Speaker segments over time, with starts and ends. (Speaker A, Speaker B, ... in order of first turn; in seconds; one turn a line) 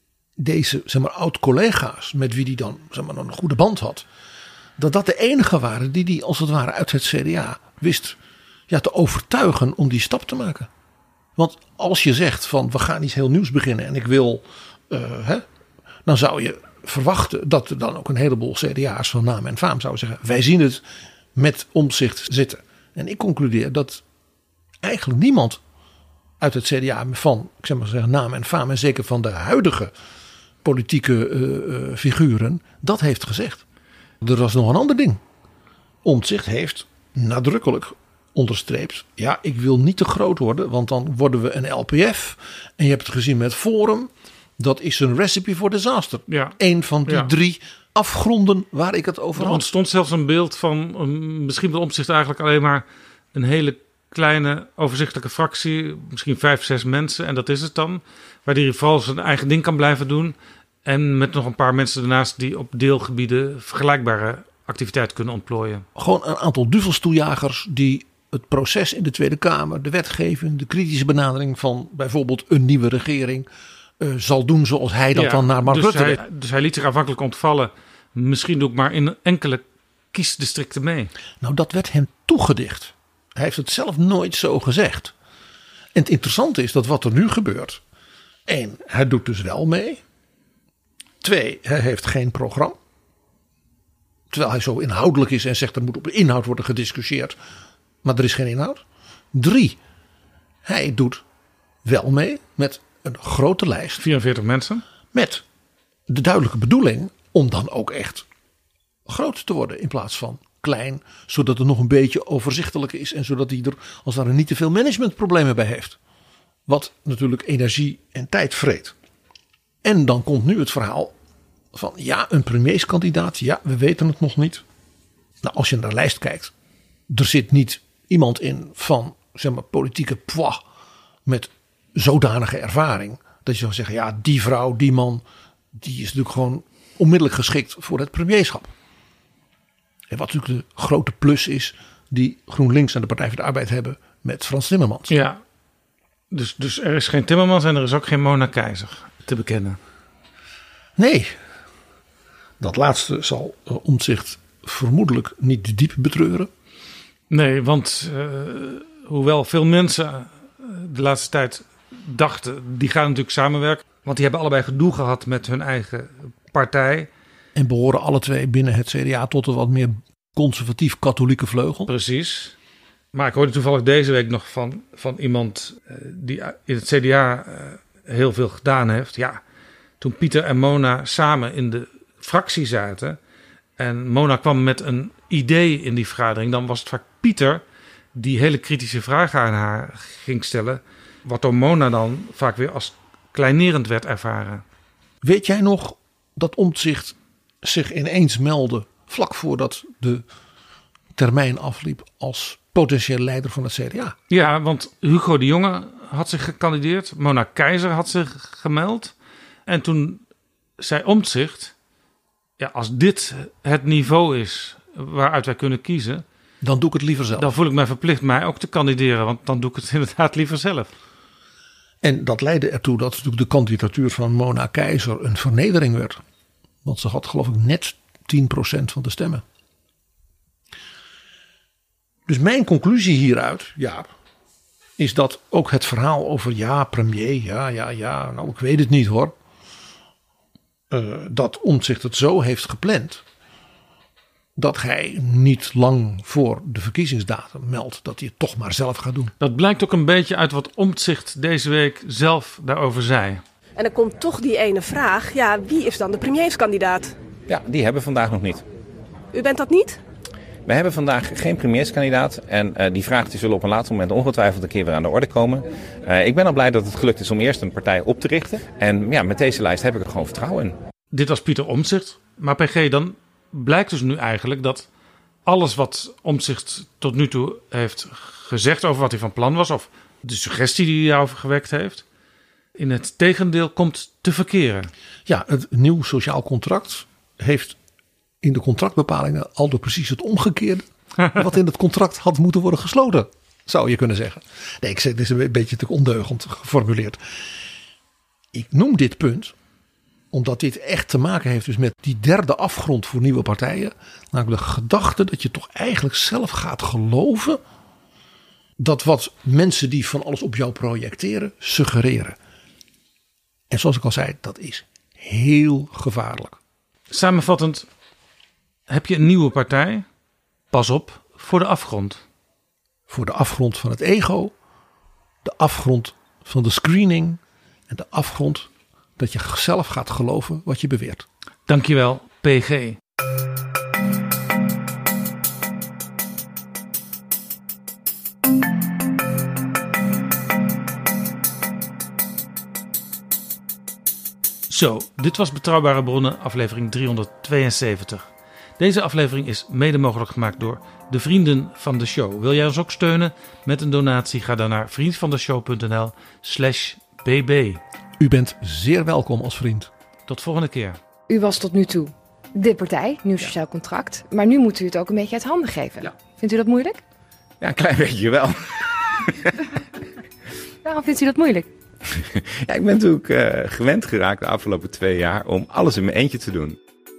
Speaker A: 0.4-4.1
Speaker A: 4.8-8.2
Speaker A: 8.7-10.7
Speaker A: 11.4-15.4
Speaker A: 16.1-20.8
Speaker A: 21.4-24.0
Speaker A: 24.8-25.6
Speaker A: 26.4-29.9
Speaker A: 30.6-33.6
Speaker A: 34.2-35.2
Speaker A: 36.0-49.6
Speaker B: 46.3-47.3
Speaker B: 49.4-65.8
Speaker A: 66.0-73.5
Speaker A: 74.0-76.2
Speaker B: 75.1-81.1
Speaker A: 81.4-85.1
Speaker A: 85.9-87.8
Speaker A: 88.5-90.0
Speaker A: 91.2-92.8
Speaker A: 94.3-97.4
Speaker A: 98.0-99.8
Speaker A: 100.6-101.2
Speaker A: 101.8-104.0
Speaker B: 104.0-104.8
Speaker A: 105.1-105.4
Speaker A: 106.1-108.3
Speaker A: 109.1-116.0
Speaker A: 116.7-119.0
Speaker A: 119.8-121.1
Speaker A: 121.7-124.6
Speaker A: 125.4-126.5
Speaker A: 127.1-130.6
Speaker A: 131.3-138.7
Speaker A: 140.1-145.1
Speaker B: 145.1-145.4
Speaker B: 146.3-149.8
Speaker A: 151.0-151.4
Speaker A: 152.6-156.5
Speaker B: 157.3-167.1
Speaker A: 167.6-171.9
Speaker B: 171.9-172.6
Speaker B: 173.1-179.4
Speaker B: 180.0-183.2
Speaker B: 183.8-187.6
Speaker B: 188.2-194.6
Speaker A: 195.2-200.3
Speaker A: 201.2-204.2
Speaker B: 204.3-209.1
Speaker B: 209.7-210.2
Speaker B: 210.8-211.7
Speaker B: 212.6-216.2
Speaker A: 216.6-217.5
Speaker B: 217.4-220.9
Speaker A: 222.0-226.2
Speaker A: 226.8-229.4
Speaker A: 232.3-234.1
Speaker A: 235.0-239.3
Speaker A: 240.9-243.2
Speaker A: 244.6-249.3
Speaker B: 249.4-253.4
Speaker C: 253.8-257.1
Speaker D: 257.5-258.6
Speaker C: 259.3-260.0
Speaker D: 260.7-270.8
Speaker B: 271.1-274.9
Speaker B: 275.5-282.0
Speaker B: 282.8-284.9
Speaker A: 285.3-287.8
Speaker A: 288.4-297.2
Speaker A: 298.5-299.5
Speaker A: 300.3-307.6
Speaker A: 308.8-312.4
Speaker A: 313.7-316.6
Speaker B: 317.1-317.9
Speaker B: 318.9-320.1
Speaker B: 320.7-322.2
Speaker A: 323.1-324.5
Speaker A: 325.4-331.3
Speaker B: 331.7-333.0
Speaker B: 344.7-348.3
Speaker B: 348.8-357.8
Speaker A: 358.2-359.9
Speaker B: 360.3-361.0
Speaker E: 361.3-367.0
Speaker D: 367.6-368.7
Speaker E: 370.9-371.7
Speaker D: 372.1-376.8